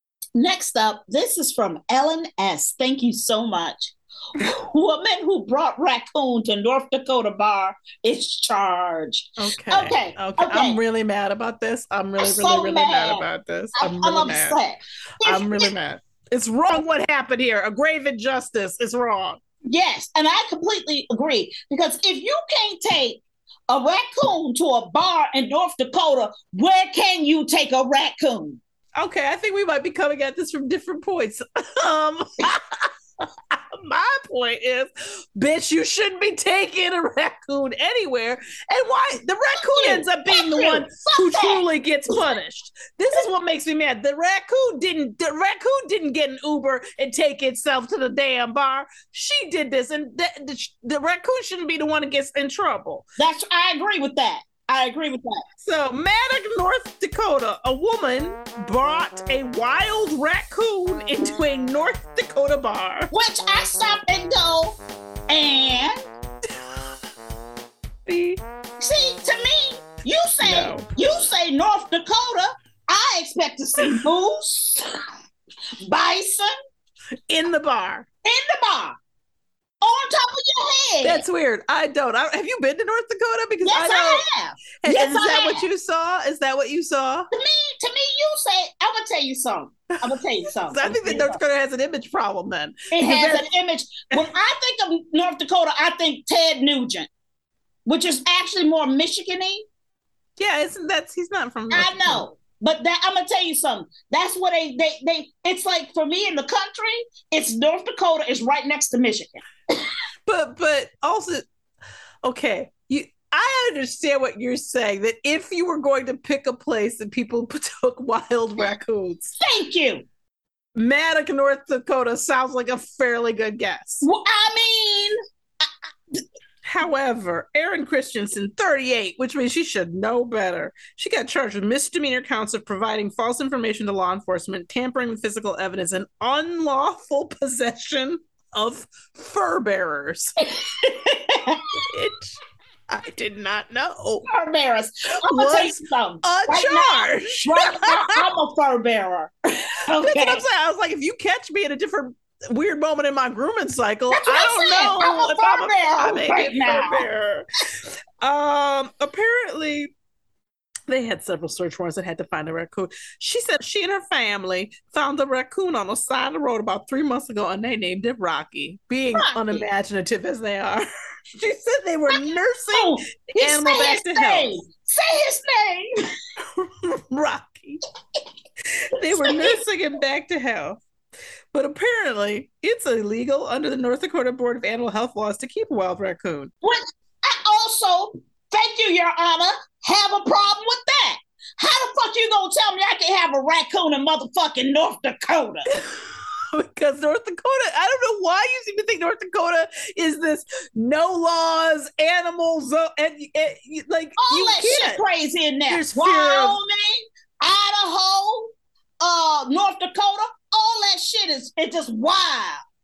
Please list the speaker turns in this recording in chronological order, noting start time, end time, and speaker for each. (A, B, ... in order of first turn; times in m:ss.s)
0:00.4-0:10.8 A
0:09.4-0:14.6 B
0:12.2-0:13.2 A
0:13.8-0:15.7 A
0:15.2-0:19.4 B
0:19.7-0:28.6 A
0:29.0-0:53.1 B
0:39.6-0:42.1 A
0:53.2-0:55.4 A
0:55.6-1:03.1 B
1:03.1-1:04.8 A
1:05.3-1:06.0 A
1:08.1-1:08.4 B
1:08.8-1:14.9 A
1:10.4-1:10.9 B
1:15.8-1:16.5 A
1:17.3-1:18.1 B
1:18.2-1:19.0 A
1:19.8-1:21.2 A
1:21.0-1:24.2 B
1:23.6-1:25.6 A
1:24.8-1:27.3 B
1:27.3-1:31.4 A
1:30.6-1:33.5 B
1:32.9-1:37.1 A
1:37.9-1:39.6 A
1:40.4-1:42.2 B
1:41.7-1:49.4 A
1:50.3-1:51.4 B
1:52.2-1:59.4 B
1:59.4-2:00.0 A
2:00.8-2:04.0 B
2:04.0-2:05.7 A
2:06.6-2:20.3 B
2:20.6-2:21.6 A
2:21.8-2:22.4 B
2:22.9-2:24.2 B
2:24.3-2:30.4 A
2:25.3-2:28.2 B
2:30.0-2:37.5 B
2:34.1-2:37.1 A
2:38.2-2:39.9 B
2:40.9-2:54.6 B
2:49.2-2:49.7 A
2:52.1-2:55.9 A
2:56.6-2:57.8 B
2:58.8-3:00.8 B
2:59.1-2:59.6 A
3:01.5-3:06.5 B
3:06.6-3:15.7 A
3:15.7-3:16.0 B
3:16.5-3:25.0 B
3:24.2-3:28.5 A
3:25.7-3:26.6 B
3:29.0-3:32.6 A